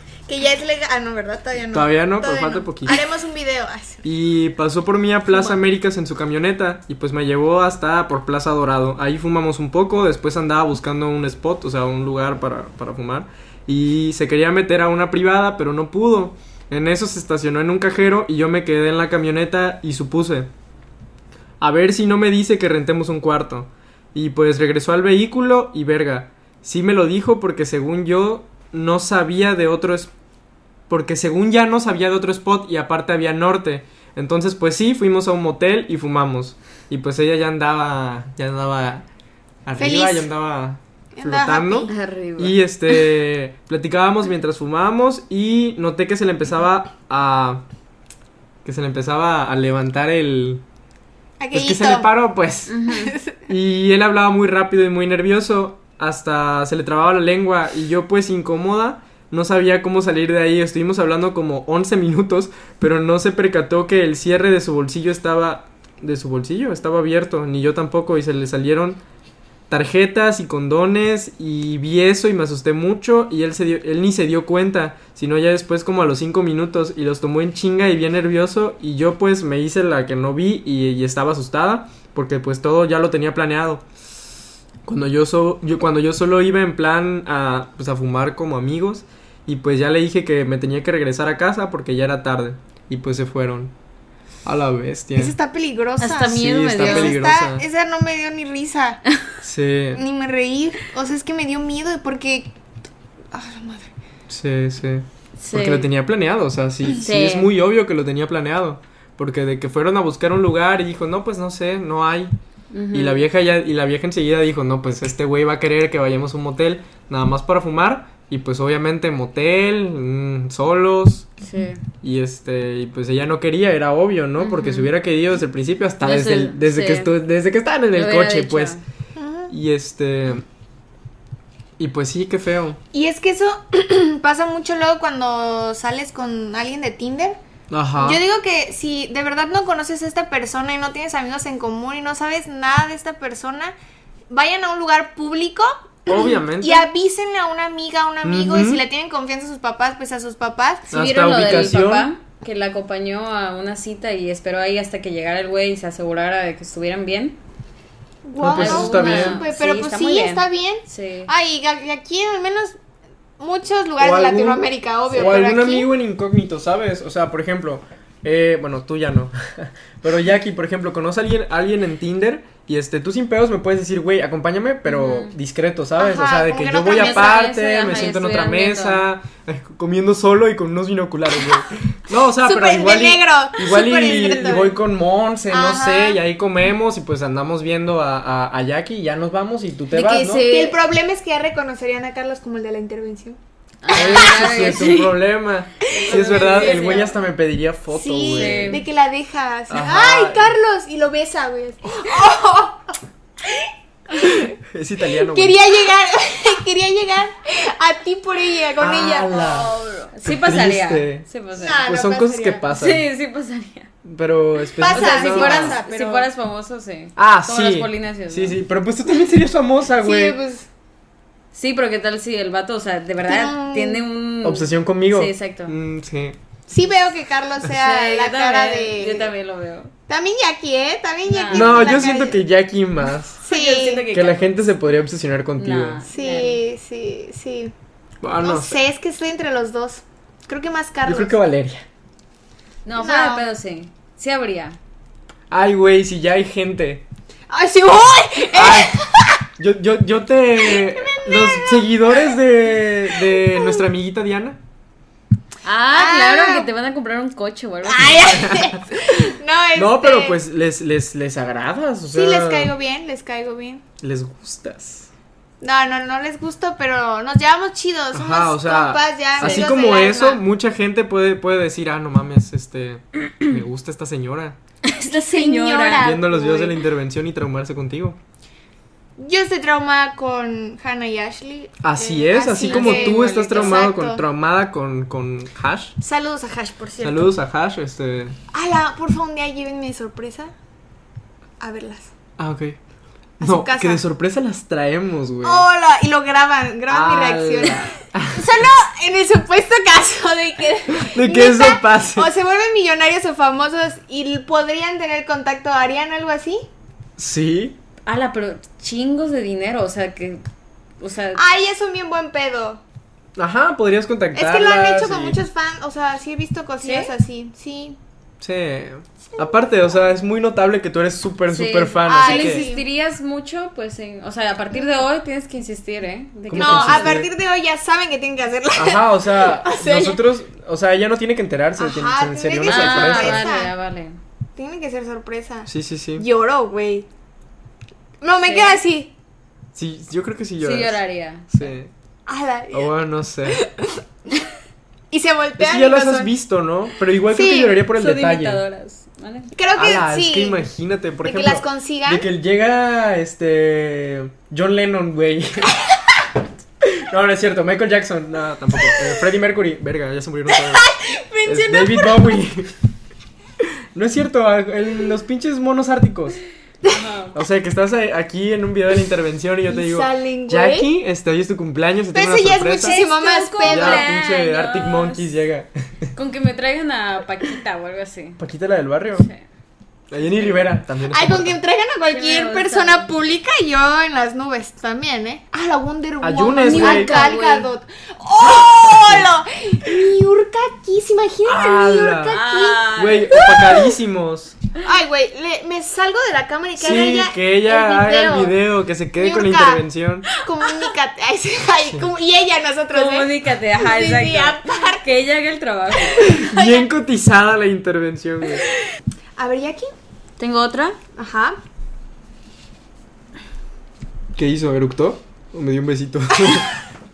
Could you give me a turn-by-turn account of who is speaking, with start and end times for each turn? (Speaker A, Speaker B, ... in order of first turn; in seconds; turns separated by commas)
Speaker A: 0.3-4.0, Speaker B: 1.7-3.0, Speaker B: 4.0-20.5, Speaker B: 21.6-30.1, Speaker B: 30.9-39.0, Speaker B: 39.6-47.6, Speaker A: 39.8-40.3, Speaker A: 41.1-41.9, Speaker C: 41.9-42.6, Speaker B: 48.6-50.6, Speaker A: 51.4-52.1, Speaker B: 51.5-52.8, Speaker C: 52.7-53.1, Speaker A: 52.9-53.4, Speaker B: 53.5-69.0, Speaker B: 69.7-83.8, Speaker B: 84.8-93.7, Speaker B: 94.4-95.3, Speaker A: 95.2-99.0, Speaker C: 96.0-97.1, Speaker B: 96.2-97.6, Speaker B: 99.4-100.0, Speaker A: 99.9-102.5, Speaker A: 103.3-103.9, Speaker B: 104.3-112.3, Speaker C: 105.4-105.9, Speaker C: 107.0-107.5, Speaker C: 112.7-113.2, Speaker B: 112.9-121.3, Speaker C: 121.4-121.8, Speaker B: 122.0-128.8, Speaker C: 124.4-124.9, Speaker C: 126.0-127.1, Speaker C: 127.9-128.8, Speaker A: 129.2-129.5, Speaker B: 129.5-130.4, Speaker B: 131.8-132.8, Speaker A: 132.9-137.4, Speaker B: 137.7-138.2, Speaker A: 138.0-143.7, Speaker A: 144.3-150.9, Speaker B: 146.1-146.9, Speaker B: 148.2-148.8, Speaker B: 150.9-152.1, Speaker C: 150.9-157.4, Speaker A: 158.2-162.8, Speaker B: 158.4-159.4, Speaker C: 158.5-161.3, Speaker A: 163.4-165.9, Speaker B: 164.0-190.5, Speaker C: 174.8-175.3, Speaker A: 176.0-177.4, Speaker C: 176.9-179.0, Speaker A: 182.4-184.8, Speaker A: 185.5-186.2, Speaker C: 189.9-190.8, Speaker A: 189.9-193.4, Speaker C: 193.8-195.2, Speaker A: 193.9-194.5, Speaker B: 193.9-198.8, Speaker C: 195.8-197.2, Speaker A: 195.9-197.1, Speaker A: 197.9-204.5, Speaker C: 198.3-198.8, Speaker B: 199.7-200.6, Speaker B: 204.1-205.6, Speaker A: 205.2-210.1, Speaker B: 208.8-213.1, Speaker C: 210.1-211.9, Speaker A: 211.5-212.7, Speaker C: 212.7-213.9, Speaker B: 214.0-215.8, Speaker A: 214.8-216.3, Speaker C: 214.8-218.6, Speaker B: 217.2-220.4, Speaker A: 220.0-220.7, Speaker C: 221.5-225.8, Speaker A: 223.2-224.0, Speaker B: 224.4-226.4, Speaker A: 226.7-229.3, Speaker C: 227.7-229.9, Speaker A: 230.1-232.4, Speaker C: 231.2-232.1, Speaker B: 231.5-233.4, Speaker A: 233.4-234.1, Speaker C: 233.5-234.5, Speaker B: 234.1-236.0, Speaker C: 235.6-236.6, Speaker A: 236.1-237.7, Speaker B: 238.2-238.8, Speaker A: 238.4-241.3, Speaker B: 241.0-241.8, Speaker C: 242.8-244.8, Speaker A: 242.9-243.4, Speaker B: 245.5-247.0, Speaker A: 247.5-249.4, Speaker B: 248.5-249.0, Speaker B: 249.6-254.6, Speaker A: 250.6-252.4, Speaker A: 253.1-253.8, Speaker C: 255.6-258.5, Speaker A: 255.9-256.7, Speaker A: 257.9-260.4, Speaker B: 258.1-259.2, Speaker B: 259.7-262.7, Speaker A: 262.1-263.8, Speaker B: 264.0-265.1, Speaker A: 265.6-270.4, Speaker B: 268.1-274.6, Speaker C: 269.4-269.7, Speaker C: 274.8-276.1, Speaker A: 275.1-276.8, Speaker B: 276.0-278.2, Speaker A: 279.2-284.2, Speaker B: 281.8-285.9, Speaker C: 282.6-283.8, Speaker A: 286.0-287.3, Speaker B: 287.0-288.4, Speaker A: 288.5-290.5, Speaker A: 291.6-292.1, Speaker B: 292.4-292.8, Speaker A: 293.4-294.0, Speaker B: 293.4-295.6, Speaker A: 295.4-306.6, Speaker B: 296.9-298.7, Speaker B: 300.9-302.3, Speaker B: 307.2-307.8, Speaker C: 308.1-310.4, Speaker C: 311.0-311.4, Speaker A: 311.3-312.8, Speaker B: 313.4-315.4, Speaker A: 314.3-318.0, Speaker C: 316.8-317.1, Speaker B: 318.4-322.6, Speaker C: 321.5-327.2, Speaker A: 322.1-322.8, Speaker B: 326.5-327.3, Speaker A: 326.5-330.2, Speaker B: 328.7-333.5, Speaker A: 331.8-333.7, Speaker C: 332.6-334.2, Speaker A: 334.6-337.1, Speaker B: 335.7-336.2, Speaker A: 338.2-339.1, Speaker C: 338.4-338.8, Speaker B: 339.7-341.9, Speaker C: 340.6-341.5, Speaker A: 342.3-342.9, Speaker B: 342.7-343.6, Speaker A: 343.4-344.4, Speaker A: 345.1-346.3, Speaker B: 345.6-348.6, Speaker A: 347.3-347.8, Speaker C: 347.9-349.5, Speaker A: 349.5-350.6, Speaker B: 349.7-355.8, Speaker A: 351.2-352.2, Speaker B: 356.8-360.9, Speaker A: 358.9-359.1, Speaker A: 360.5-362.4, Speaker B: 361.4-362.7, Speaker B: 363.6-366.4, Speaker C: 366.9-367.4, Speaker B: 367.3-373.0, Speaker A: 369.7-370.9, Speaker A: 372.1-374.1, Speaker C: 372.8-375.3, Speaker B: 373.6-375.7, Speaker C: 376.1-378.4, Speaker B: 378.4-379.3, Speaker C: 379.2-379.4, Speaker B: 380.1-381.6, Speaker C: 380.2-380.5, Speaker A: 381.1-394.0, Speaker C: 382.1-383.1, Speaker B: 386.2-387.2, Speaker C: 386.6-387.7, Speaker B: 388.9-389.3, Speaker B: 391.4-394.6, Speaker C: 392.2-393.5, Speaker A: 394.8-398.6, Speaker B: 396.8-400.3, Speaker A: 399.2-405.0, Speaker C: 402.9-406.3, Speaker A: 406.1-406.9, Speaker B: 406.2-408.6, Speaker A: 409.4-409.9, Speaker C: 410.4-411.0, Speaker A: 411.1-411.6, Speaker B: 414.4-416.7